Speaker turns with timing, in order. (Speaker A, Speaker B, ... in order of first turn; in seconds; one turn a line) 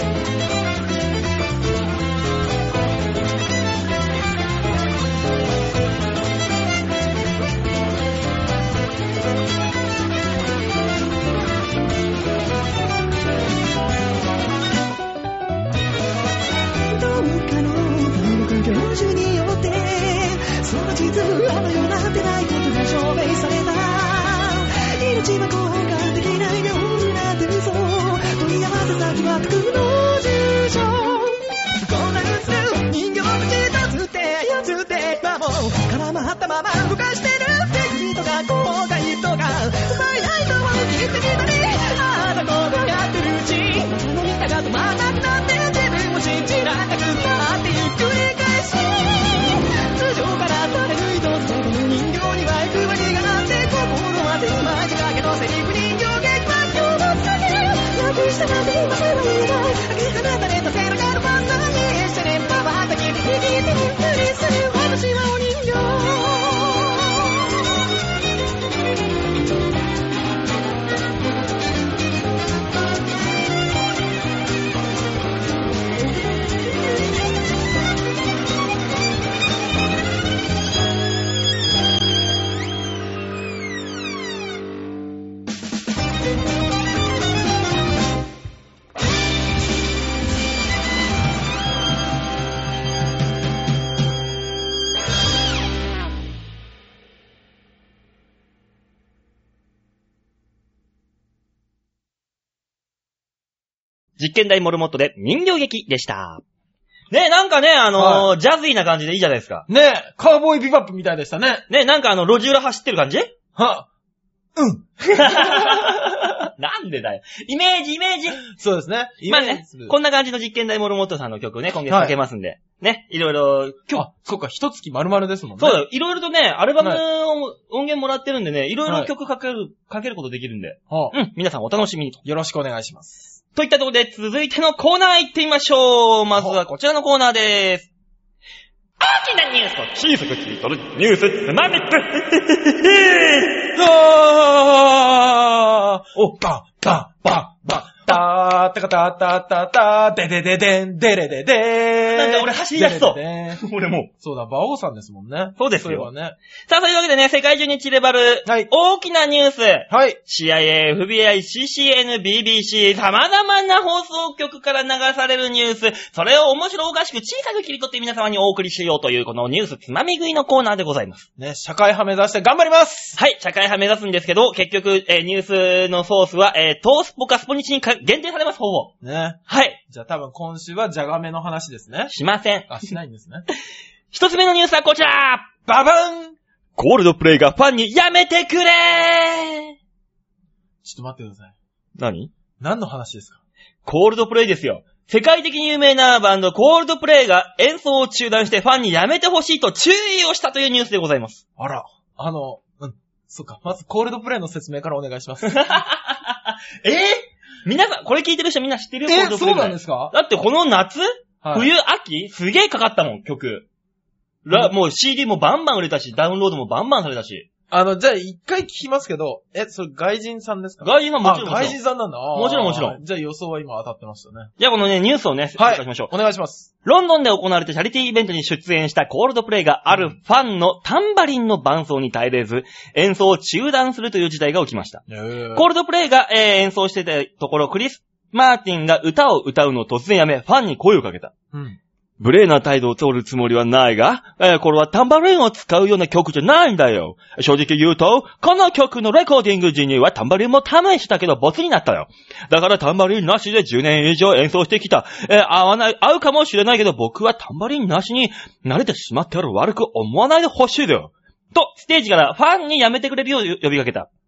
Speaker A: 16.9-67.5
Speaker B: 104.2-106.4
Speaker B: 107.1-109.7
Speaker C: 107.9-108.3
Speaker C: 109.7-111.6
Speaker B: 111.7-113.3
Speaker C: 113.5-113.9
Speaker C: 114.5-116.4
Speaker B: 115.0-118.4
Speaker C: 118.4-119.9
Speaker B: 119.3-124.0
Speaker C: 121.9-122.1
Speaker C: 123.9-125.8
Speaker B: 125.6-132.2
Speaker C: 128.8-129.1
Speaker C: 130.9-131.1
Speaker C: 132.2-133.2
Speaker B: 133.5-137.9
Speaker B: 139.0-143.7
Speaker C: 143.7-153.6
Speaker B: 152.1-154.1
Speaker C: 154.2-156.3
Speaker B: 155.6-156.1
Speaker B: 156.7-171.2
Speaker C: 159.9-160.2
Speaker C: 171.4-173.2
Speaker B: 173.2-178.9
Speaker C: 179.0-182.1
Speaker B: 179.5-179.8
Speaker B: 182.1-182.9
Speaker C: 182.7-183.4
Speaker B: 184.1-185.5
Speaker C: 185.6-186.3
Speaker B: 186.8-189.7
Speaker C: 190.8-191.5
Speaker B: 192.0-192.3
Speaker C: 192.6-193.4
Speaker B: 193.8-201.4
Speaker C: 201.6-205.6
Speaker B: 205.4-213.7
Speaker C: 209.1-210.1
Speaker C: 211.4-211.7
Speaker B: 214.4-217.5
Speaker C: 217.7-224.5
Speaker B: 220.8-221.8
Speaker B: 222.3-223.0
Speaker B: 224.6-226.1
Speaker C: 225.6-226.7
Speaker B: 226.8-235.0
Speaker C: 235.1-235.6
Speaker B: 235.5-241.3
Speaker C: 241.5-241.8
Speaker B: 242.2-264.1